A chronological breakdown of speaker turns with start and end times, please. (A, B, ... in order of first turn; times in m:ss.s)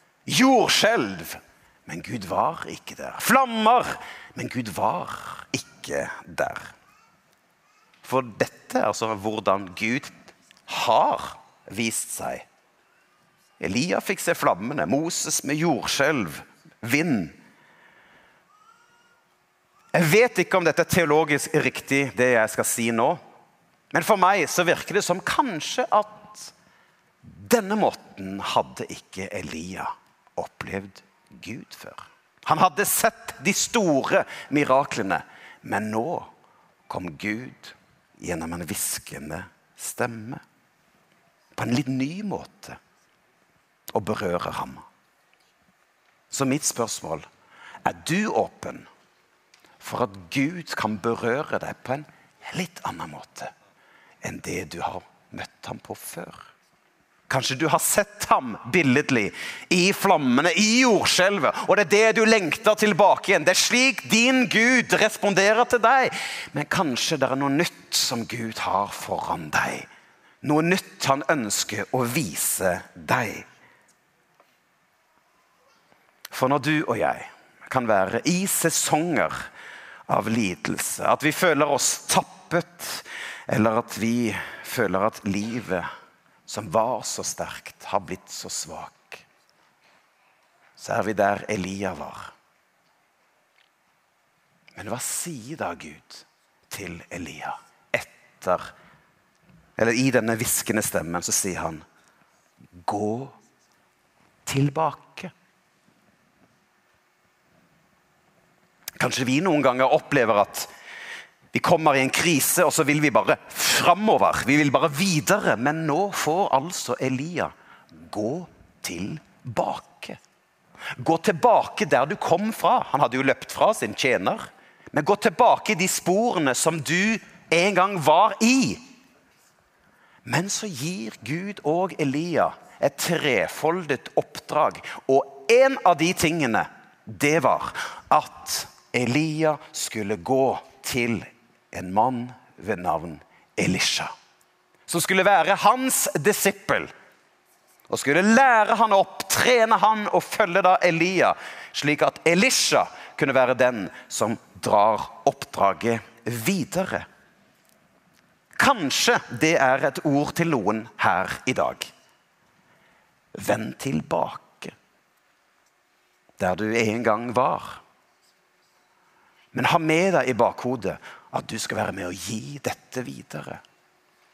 0:00.2-0:06.7 A
0:08.0-0:10.1 A
0:10.7-0:12.5 A
0:13.6-0:17.4 A
0:19.9-0:23.2 A
0:23.9-0:26.5 A
0:27.2-0:36.3 A
0:36.9-0:40.4 A
0:41.5-0:42.8 A
0:43.9-0:44.8 A
0:46.3-0:47.2 A
0:47.8-0:48.9 A
0:49.8-0:53.5 A
0:54.2-0:56.5 A
0:57.3-1:09.9 A
1:10.4-1:13.5 A
1:16.3-1:19.5 A
1:20.1-1:25.9 A
1:26.5-1:29.2 A
1:30.8-1:32.3 A
1:34.8-1:38.7 A
1:39.8-1:41.8 A
1:42.8-1:43.4 A
1:44.4-1:45.3 A
1:49.0-1:50.7 A
1:51.5-2:00.2 A
2:01.0-2:08.8 A
2:10.2-2:24.1 A
2:24.9-2:26.9 A
2:27.9-2:37.1 A
2:38.6-2:41.9 A
2:43.3-2:44.7 A
2:46.4-2:47.8 A
2:49.5-2:53.6 A